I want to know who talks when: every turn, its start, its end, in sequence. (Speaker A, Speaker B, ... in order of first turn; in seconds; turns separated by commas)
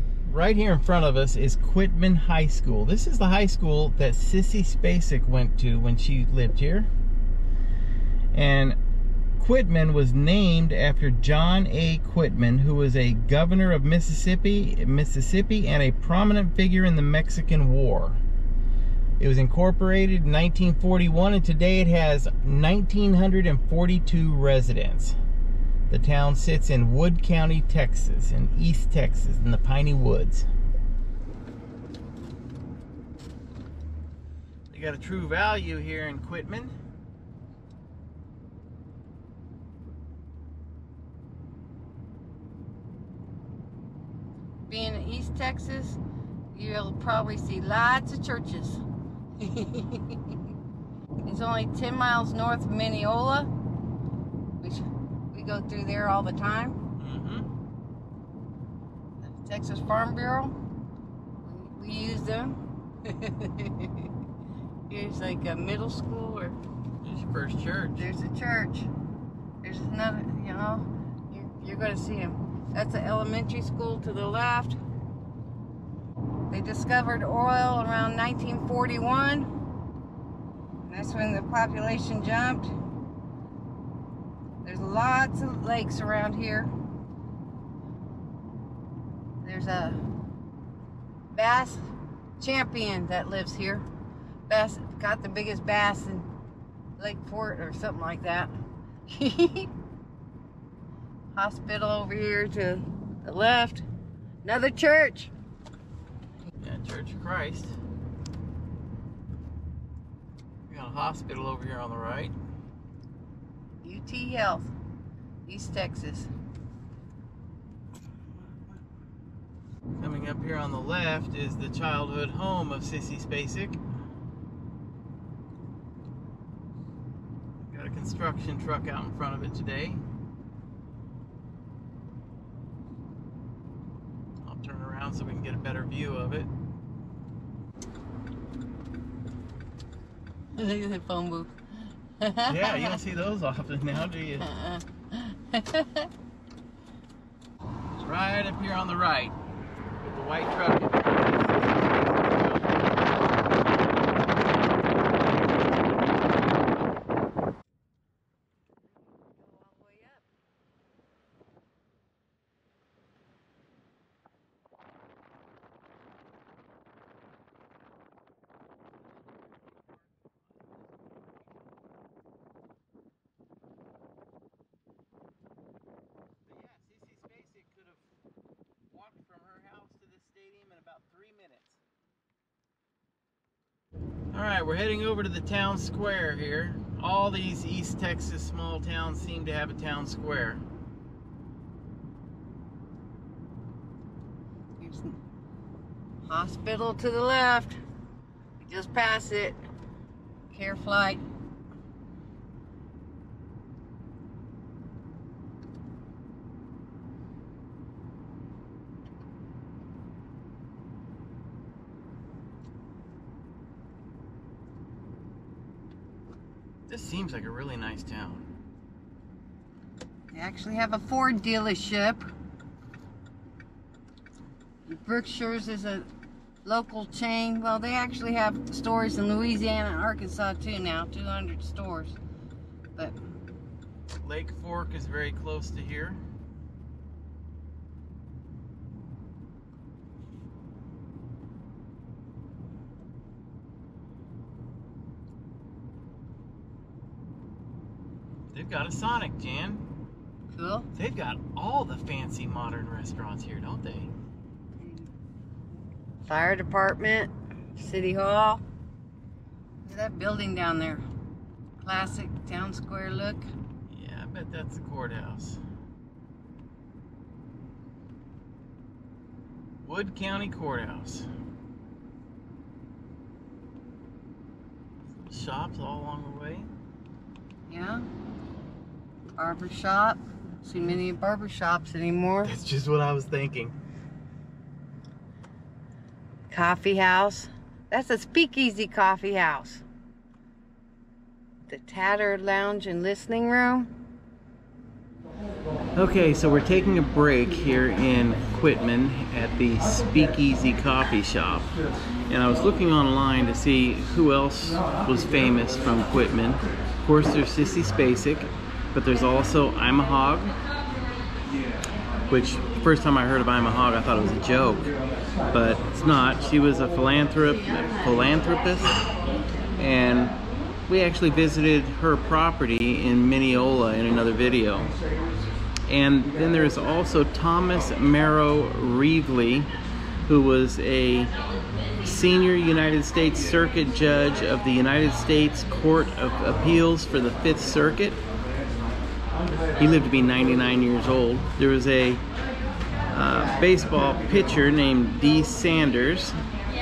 Speaker A: 0.2-6.9, Speaker A: 8.3-8.8, Speaker A: 9.4-18.2, Speaker A: 19.2-25.2, Speaker A: 25.9-30.5, Speaker A: 34.7-36.7, Speaker B: 44.7-46.0, Speaker B: 46.5-48.8, Speaker B: 49.4-50.4, Speaker B: 51.3-53.5, Speaker B: 54.6-56.8, Speaker A: 57.0-57.5, Speaker B: 59.2-60.5, Speaker B: 61.4-64.1, Speaker B: 64.9-66.6, Speaker A: 67.0-68.1, Speaker B: 68.0-68.9, Speaker B: 69.6-74.8, Speaker B: 76.5-79.5, Speaker B: 80.8-82.7, Speaker B: 84.6-86.7, Speaker B: 89.4-90.0, Speaker B: 91.3-91.8, Speaker B: 92.4-93.8, Speaker B: 94.5-96.3, Speaker B: 97.0-98.5, Speaker B: 99.1-99.7, Speaker B: 101.3-103.8, Speaker B: 104.4-105.3, Speaker A: 106.6-107.8, Speaker A: 110.7-112.3, Speaker B: 113.8-114.7, Speaker B: 115.5-116.3, Speaker A: 120.0-123.8, Speaker A: 127.6-130.0, Speaker A: 134.4-136.5, Speaker B: 140.6-141.5, Speaker B: 142.2-143.0, Speaker A: 142.5-144.5, Speaker B: 144.5-146.1, Speaker A: 148.0-149.3, Speaker A: 150.0-153.0, Speaker B: 159.1-160.2, Speaker A: 169.7-170.9, Speaker A: 176.5-178.0, Speaker A: 178.9-181.8, Speaker A: 184.3-190.6, Speaker B: 194.8-195.2, Speaker B: 196.2-197.8, Speaker B: 198.6-199.6, Speaker B: 200.5-201.2, Speaker A: 216.9-218.5, Speaker B: 220.3-222.2, Speaker B: 224.9-226.1, Speaker B: 226.7-232.2, Speaker A: 234.2-236.2, Speaker A: 248.5-249.8, Speaker B: 250.5-250.9, Speaker A: 250.9-254.1, Speaker B: 254.8-255.1, Speaker B: 256.2-258.6, Speaker B: 259.9-261.0, Speaker B: 261.8-263.5, Speaker A: 263.9-265.6, Speaker A: 269.8-271.3, Speaker A: 275.1-276.7, Speaker B: 277.7-278.1, Speaker B: 279.4-282.5, Speaker A: 282.4-283.8, Speaker B: 286.5-289.8, Speaker B: 291.7-293.9, Speaker A: 295.9-301.7, Speaker A: 302.3-310.5, Speaker A: 312.3-314.9, Speaker A: 315.5-319.1, Speaker A: 319.8-320.4, Speaker A: 320.9-324.9, Speaker A: 325.9-329.7, Speaker A: 330.3-331.3, Speaker A: 332.0-338.2, Speaker A: 339.8-342.2, Speaker A: 343.1-346.4